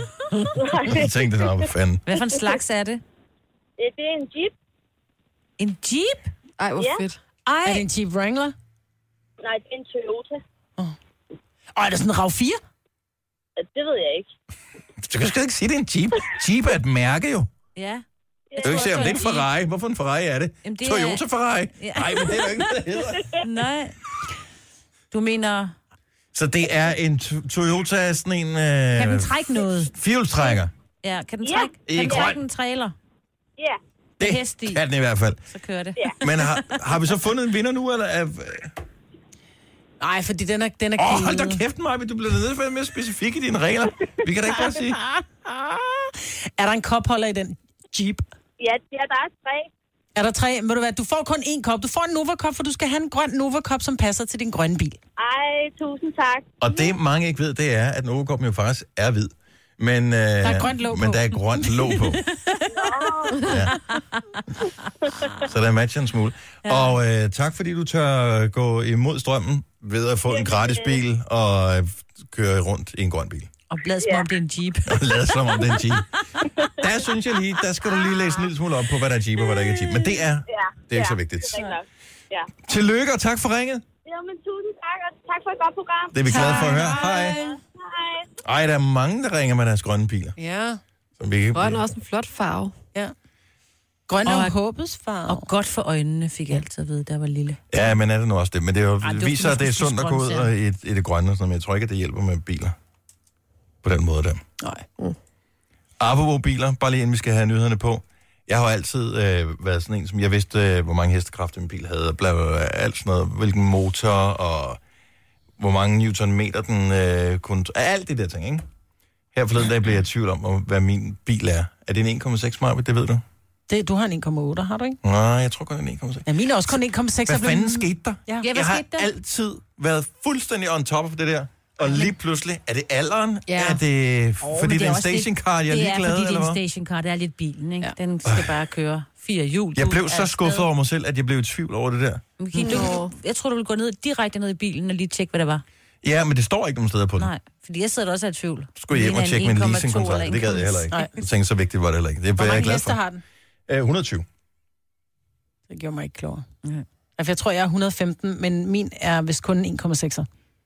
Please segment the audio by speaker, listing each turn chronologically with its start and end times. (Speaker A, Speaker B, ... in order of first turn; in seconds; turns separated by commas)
Speaker A: 0.5-1.7, Speaker B: 0.8-2.0, Speaker C: 2.1-3.0, Speaker A: 3.8-4.5, Speaker C: 5.6-6.3, Speaker D: 6.6-7.2, Speaker A: 6.8-7.1, Speaker C: 7.5-7.9, Speaker E: 7.6-8.6, Speaker A: 9.4-10.4, Speaker E: 11.8-12.6, Speaker A: 13.6-14.3, Speaker B: 15.0-17.5, Speaker C: 17.8-18.0, Speaker A: 18.5-19.2, Speaker C: 18.6-19.5, Speaker B: 18.6-23.3, Speaker C: 20.6-21.2, Speaker C: 21.8-22.8, Speaker A: 23.2-23.4, Speaker C: 23.4-23.9, Speaker C: 25.1-25.8, Speaker B: 26.3-30.7, Speaker C: 29.0-33.0, Speaker A: 31.4-32.4, Speaker B: 31.9-32.4, Speaker B: 34.2-35.4, Speaker C: 34.2-34.8, Speaker C: 35.5-36.7, Speaker B: 36.2-38.8, Speaker E: 40.0-41.6, Speaker B: 41.0-45.0, Speaker E: 45.0-48.2, Speaker A: 48.6-49.7, Speaker E: 50.2-55.0, Speaker A: 55.2-56.9, Speaker B: 56.6-62.2, Speaker E: 60.4-62.0, Speaker A: 62.7-63.7, Speaker B: 63.4-63.8, Speaker C: 63.9-64.2, Speaker A: 65.0-65.3, Speaker B: 65.3-73.5, Speaker C: 66.7-67.0, Speaker A: 70.3-71.0, Speaker C: 73.7-75.8, Speaker A: 74.0-74.3, Speaker B: 74.9-76.1, Speaker A: 76.4-76.8, Speaker B: 76.8-81.6, Speaker A: 80.5-82.5, Speaker B: 82.6-83.8, Speaker A: 84.0-88.3, Speaker B: 86.1-87.4, Speaker D: 86.3-87.5, Speaker E: 86.3-87.3, Speaker B: 88.4-90.3, Speaker E: 90.4-90.8, Speaker B: 91.2-91.8, Speaker D: 91.5-92.7, Speaker E: 94.1-95.5, Speaker C: 94.2-94.6, Speaker C: 95.3-97.6, Speaker B: 97.7-102.8, Speaker C: 99.0-100.5, Speaker B: 103.8-104.4, Speaker E: 104.6-104.8, Speaker B: 106.0-114.8, Speaker B: 115.6-118.6, Speaker B: 119.3-123.2, Speaker E: 123.7-125.0, Speaker B: 125.0-126.3, Speaker E: 126.3-128.5, Speaker B: 127.3-136.6, Speaker C: 128.4-129.1, Speaker E: 133.5-133.8, Speaker C: 134.4-140.7, Speaker B: 138.2-138.5, Speaker B: 139.8-142.2, Speaker C: 142.4-145.6, Speaker D: 142.6-143.1, Speaker B: 146.0-147.3, Speaker C: 147.2-151.1, Speaker B: 148.8-153.0, Speaker E: 152.4-153.2, Speaker B: 153.7-154.3, Speaker E: 155.7-156.5, Speaker E: 157.2-160.3